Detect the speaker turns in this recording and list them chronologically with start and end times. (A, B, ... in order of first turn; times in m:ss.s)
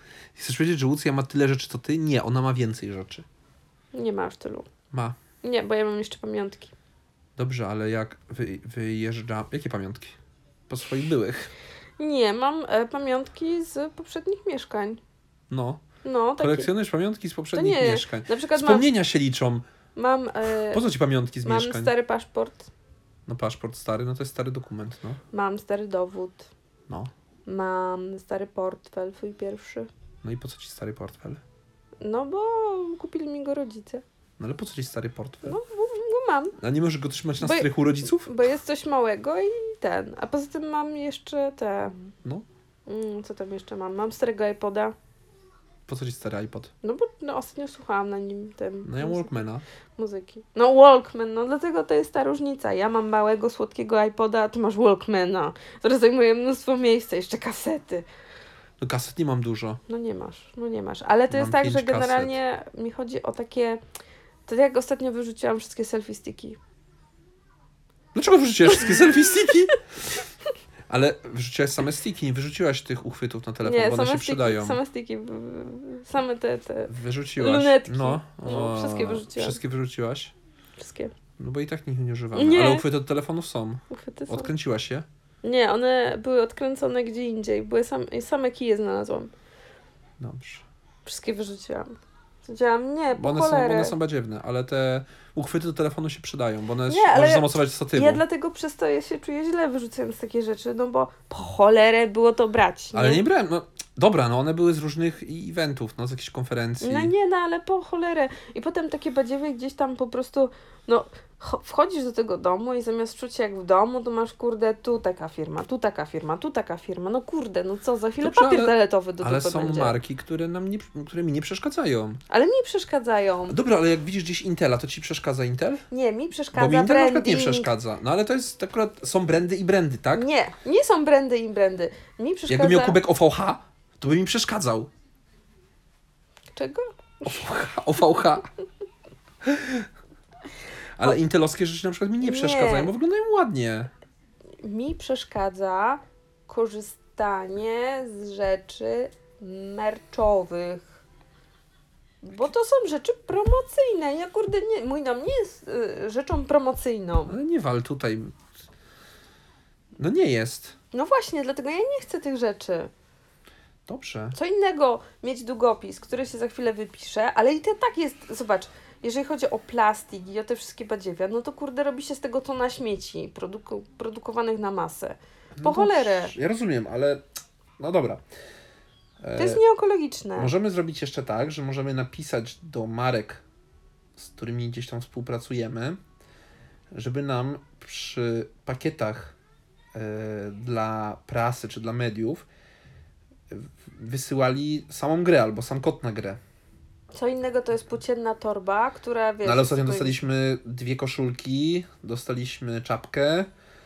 0:00.3-0:03.2 A
0:03.9-0:04.7 B
0:04.9-0:05.2 A
0:05.4-0:06.7 B
0:07.4-0:10.2 A
0:10.7-0:11.5 A
0:12.0-0:15.0 B
0:15.5-0:15.8 A
0:16.0-0:16.7 B
0:16.4-0:19.6 A
0:17.5-0:18.8 B
0:20.0-0:20.8 B
0:20.7-0:21.9 A
0:21.4-0:22.7 B
0:23.3-0:25.2 A
0:25.3-0:26.5 B
0:27.4-0:29.9 B
0:30.2-0:31.4 A
0:32.0-0:34.0 B
0:34.4-0:35.6 A
0:35.4-0:36.6 B
0:36.6-0:38.3 A
0:37.4-0:42.1 B
0:42.9-0:44.9 B
0:45.9-0:46.7 A
0:46.8-0:49.3 B
0:48.8-0:49.6 A
0:50.0-0:58.1 B
0:58.8-0:59.8 A
0:59.9-1:03.8 B
1:01.3-1:02.4 A
1:04.5-1:06.6 B
1:08.1-1:10.1 A
1:08.7-1:09.7 B
1:10.9-1:14.8 A
1:13.6-1:19.6 B
1:16.9-1:20.3 A
1:20.8-1:21.1 B
1:21.4-1:25.0 A
1:22.3-1:22.8 B
1:23.9-1:24.5 B
1:25.4-1:29.3 B
1:30.2-1:30.6 A
1:31.0-1:33.9 B
1:33.1-1:38.2 A
1:36.9-1:43.2 B
1:42.9-1:47.1 A
1:46.8-2:00.0 B
1:58.2-2:02.2 A
2:02.3-2:03.6 B
2:03.5-2:05.8 A
2:05.9-2:07.7 B
2:06.5-2:10.3 A
2:10.1-2:13.0 B
2:12.5-2:14.9 A
2:16.6-2:17.5 B
2:17.2-2:18.5 A
2:19.4-2:19.9 A
2:21.0-2:23.9 A
2:22.2-2:22.9 B
2:24.6-2:31.0 B
2:32.2-2:37.4 B
2:37.3-2:38.3 A
2:40.0-2:40.7 A
2:40.9-2:42.9 B
2:43.8-2:44.4 A
2:44.3-2:56.3 B
2:55.6-2:57.2 A
2:57.8-2:58.2 A
2:59.2-2:59.6 A
2:59.4-3:00.5 B
3:00.4-3:03.4 A
3:04.2-3:06.0 A
3:06.9-3:09.3 A
3:09.9-3:12.4 A
3:13.5-3:16.4 A
3:17.1-3:20.2 B
3:19.4-3:23.5 A